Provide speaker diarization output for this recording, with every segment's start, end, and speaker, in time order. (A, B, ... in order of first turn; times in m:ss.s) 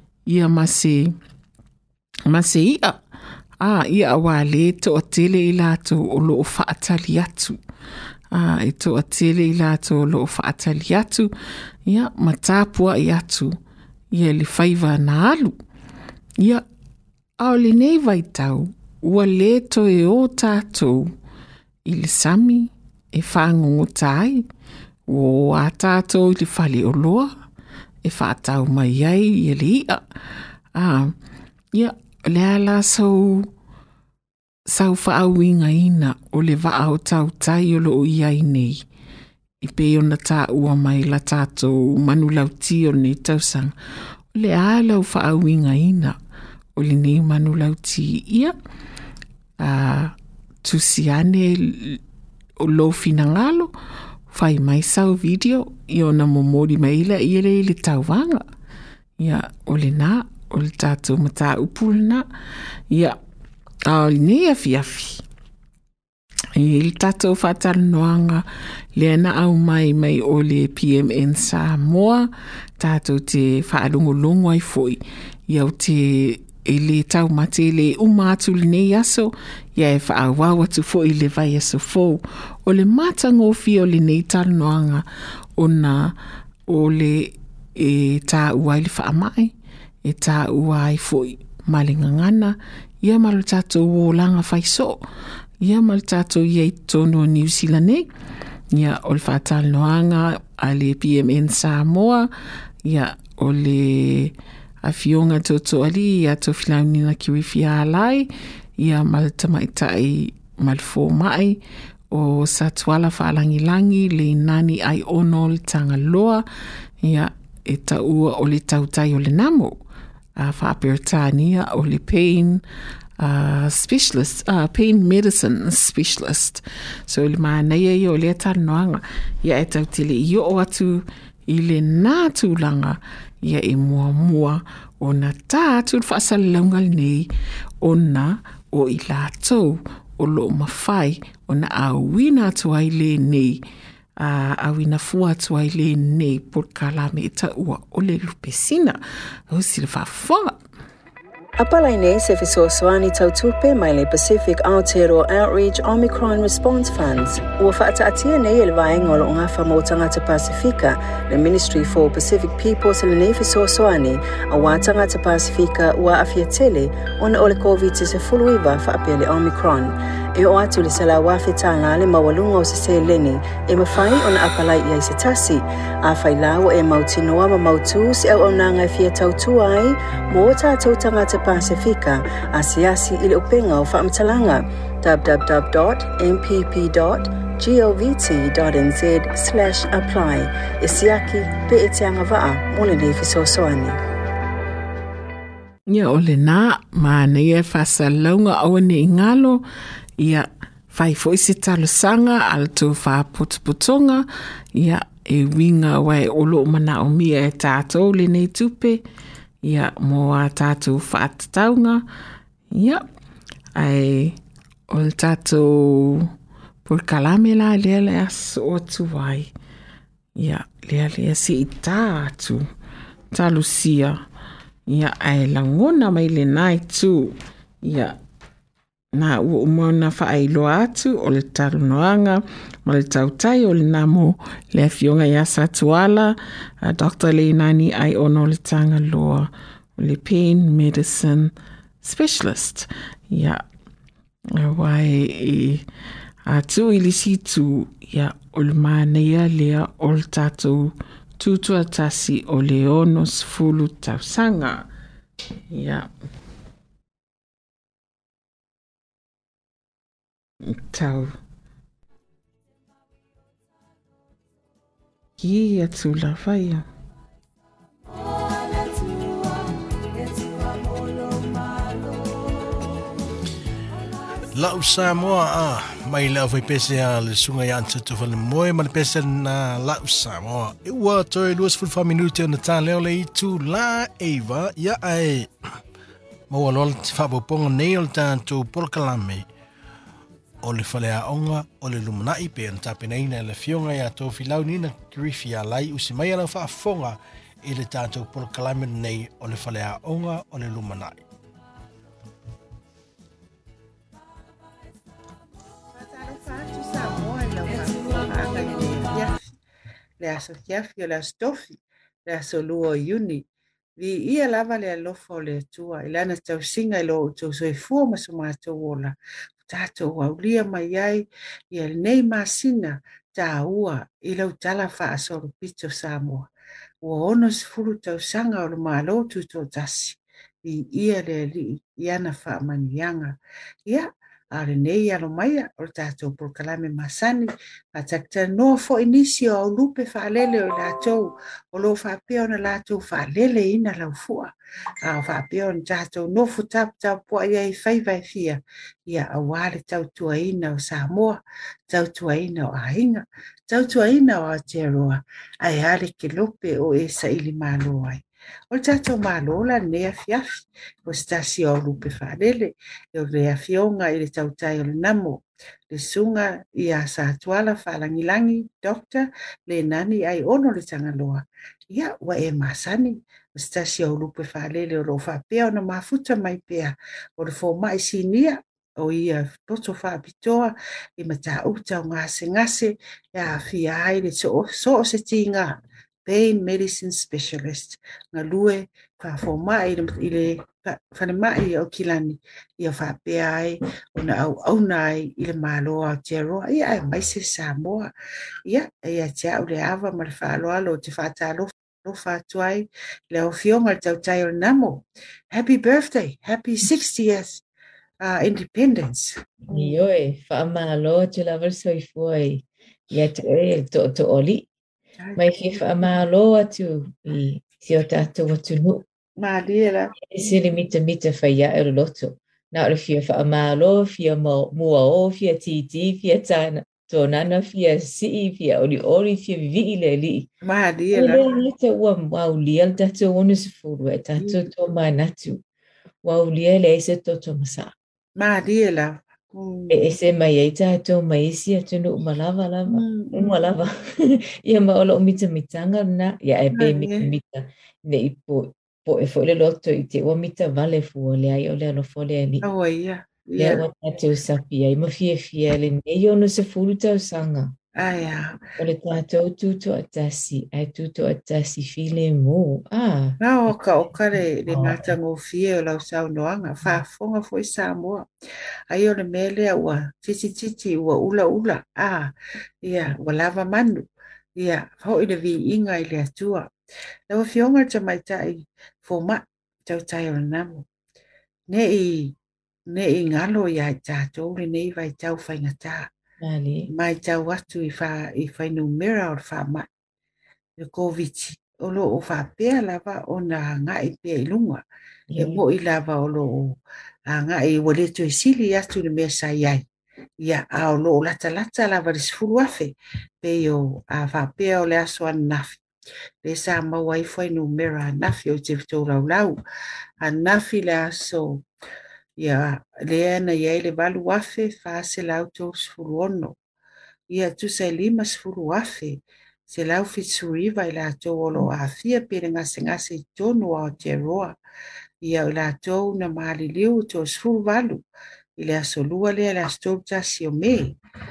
0:00.3-0:01.2 A
0:02.3-0:03.0 A
0:03.6-0:07.6 A
0:08.3-0:11.3 A
0:11.8-0:13.6 A
0:14.1-0:15.6 A
0:16.4-0:16.6 A
0:17.4-0:21.1 A
0:21.8-0:24.4 A
0:25.1-0:27.3 A
0:28.0-0:30.0 A
0:30.7-0:31.2 A
0:31.7-0:33.5 A
0:34.7-0:38.8 A
0:39.6-0:43.7 A
0:44.3-0:46.2 A
0:46.8-0:48.5 A
0:49.6-0:52.0 A
0:52.6-0:53.7 A
0:54.3-0:58.4 A
0:59.2-1:02.3 A
1:02.9-1:03.2 A
1:03.9-1:05.2 A
1:06.6-1:25.0 A
1:25.6-1:26.1 A
1:26.7-1:35.0 A
1:35.6-1:38.1 A
1:38.7-1:42.3 A
1:42.8-1:51.6 A
1:52.1-1:56.4 A
1:57.0-1:59.8 A
2:00.4-2:02.6 A
2:03.2-2:17.3 A
2:17.8-2:23.6 A
2:24.2-2:30.6 A
2:31.6-3:14.0 B
3:15.9-3:19.6 A
3:20.2-3:29.0 A
3:29.6-3:32.0 A
3:32.7-3:33.0 A
3:33.8-3:34.4 A
3:34.9-3:36.3 A
3:36.8-3:39.5 A
3:40.4-3:42.7 A
3:43.3-3:44.2 A
3:44.9-3:48.2 A
3:49.1-4:03.6 A
4:04.6-4:05.8 A
4:06.4-4:14.8 A
4:15.7-4:16.1 A
4:20.6-4:21.3 A
4:25.4-4:26.8 A
4:34.5-4:45.5 C
4:46.5-4:49.4 C
4:50.6-5:01.2 C
5:05.9-5:09.5 D
5:10.2-5:13.4 D
5:14.0-5:26.5 D
5:27.0-5:44.5 D
5:45.0-6:38.1 D
6:38.7-6:47.6 D
6:48.2-6:49.9 D
6:49.7-6:54.6 E
6:55.4-6:59.0 E
6:59.4-7:00.1 D
7:00.2-7:10.4 E
7:10.6-7:11.4 D
7:11.1-7:15.6 E
7:16.2-7:17.9 E
7:18.4-7:19.9 D
7:19.9-7:32.6 E
7:22.9-7:23.4 D
7:26.8-7:27.2 D
7:32.6-7:33.8 D
7:33.6-7:37.7 E
7:38.0-7:38.6 D
7:38.8-7:43.4 E
7:43.4-7:48.3 D
7:44.4-7:45.1 E
7:48.9-7:56.7 D
7:57.3-8:00.8 D
8:01.7-8:02.3 D
8:02.9-8:06.1 D
8:06.4-8:06.9 E
8:06.9-8:09.9 D
8:10.8-8:14.8 D
8:15.3-8:15.6 E
8:15.4-8:16.8 D
8:17.3-8:19.8 D
8:20.4-8:25.8 D
8:26.4-8:29.5 D
8:30.2-8:31.6 D
8:32.4-8:36.5 D
8:37.3-8:39.2 D
8:39.7-8:44.6 D
8:45.2-8:48.0 D
8:48.6-8:51.0 D